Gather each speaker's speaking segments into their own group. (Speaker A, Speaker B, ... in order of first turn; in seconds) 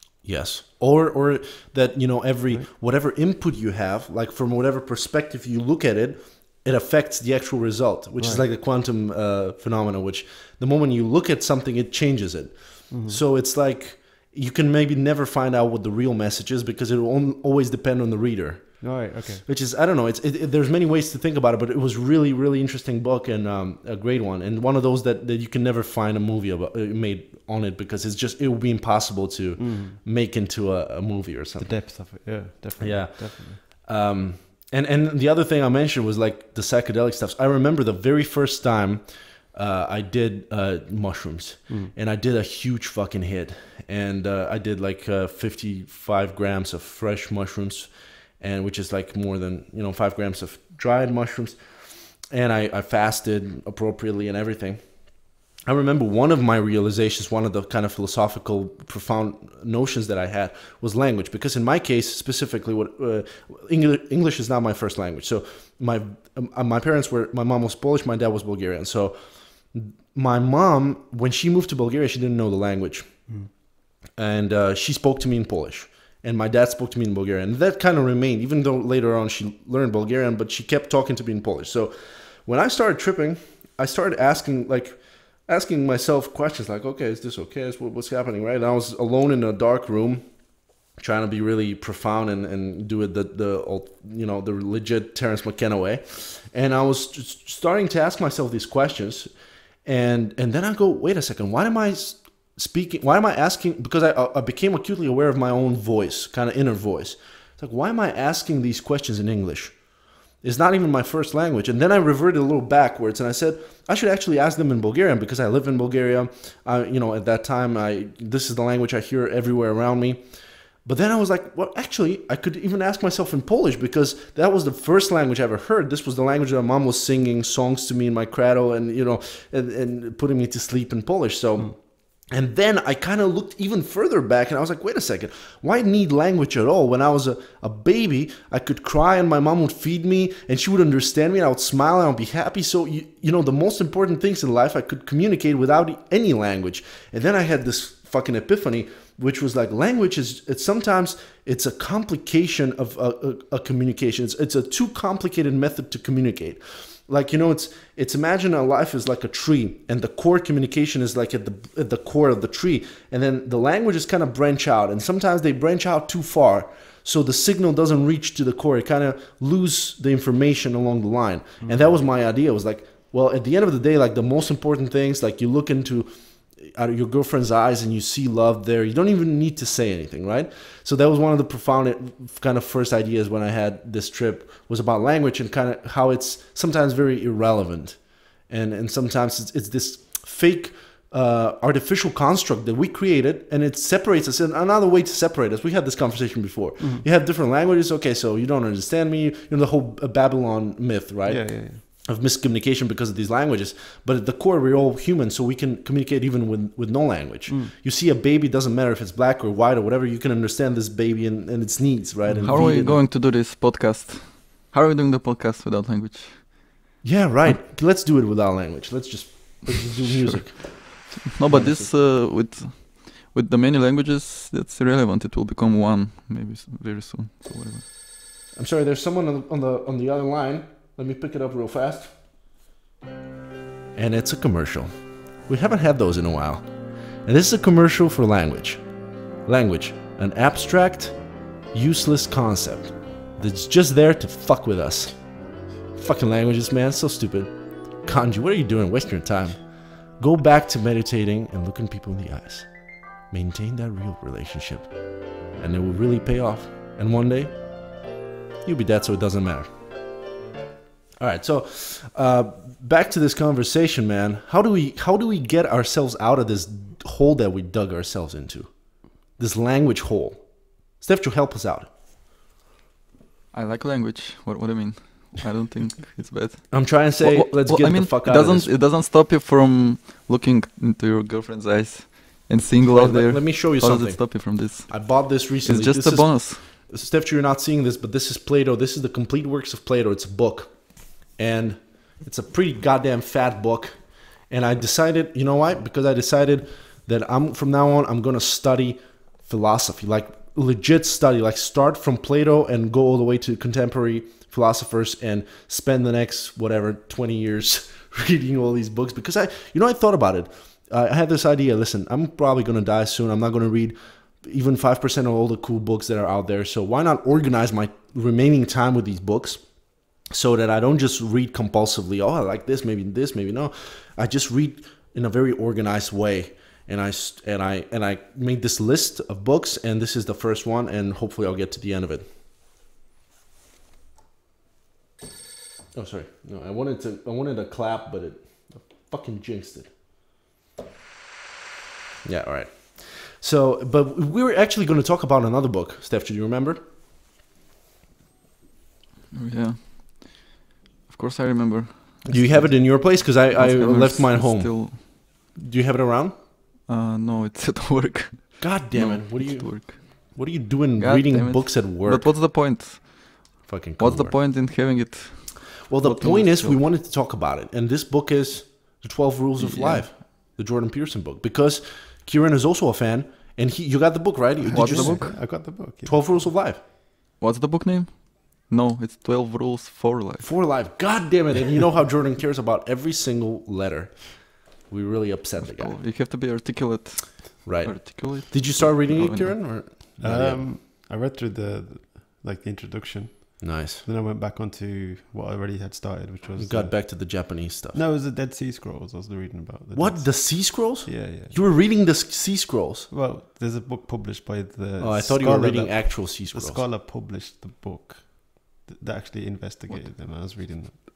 Speaker A: 0.2-31.8, 32.8-73.3, 74.1-90.4, 91.0-99.3, 99.8-109.8, 110.4-120.2, 120.8-213.0, 217.0-221.9, 228.6-232.2, 233.9-236.7, 237.2-238.8, 239.4-241.2, 241.7-245.2, 245.9-252.7, 253.3-254.9, 255.6-257.5, 258.6-259.7, 261.2-271.9, 276.7-278.7, 282.9-332.3, 335.9-339.9, 342.2-346.8, 352.3-356.3, 358.6-362.3, 363.6-364.4, 365.9-376.8, 380.4-386.0, 387.6-390.6, 393.6-394.0, 396.6-398.0, 399.9-403.1, 405.0-406.8
Speaker B: 8.2-8.4, 12.9-13.2, 18.8-19.4, 29.6-30.0, 31.6-33.6, 41.7-41.9, 171.6-171.9, 196.8-197.0, 201.2-201.8, 207.5-207.7, 374.7-376.5, 390.2-397.4, 397.9-401.6, 403.1-411.0
Speaker C: 212.4-216.7, 220.8-227.8, 273.5-286.7, 349.3-350.5, 351.1-355.0, 356.9-360.3, 361.0-366.8, 369.6-370.1, 374.7-375.3, 377.4-380.5, 385.6-389.7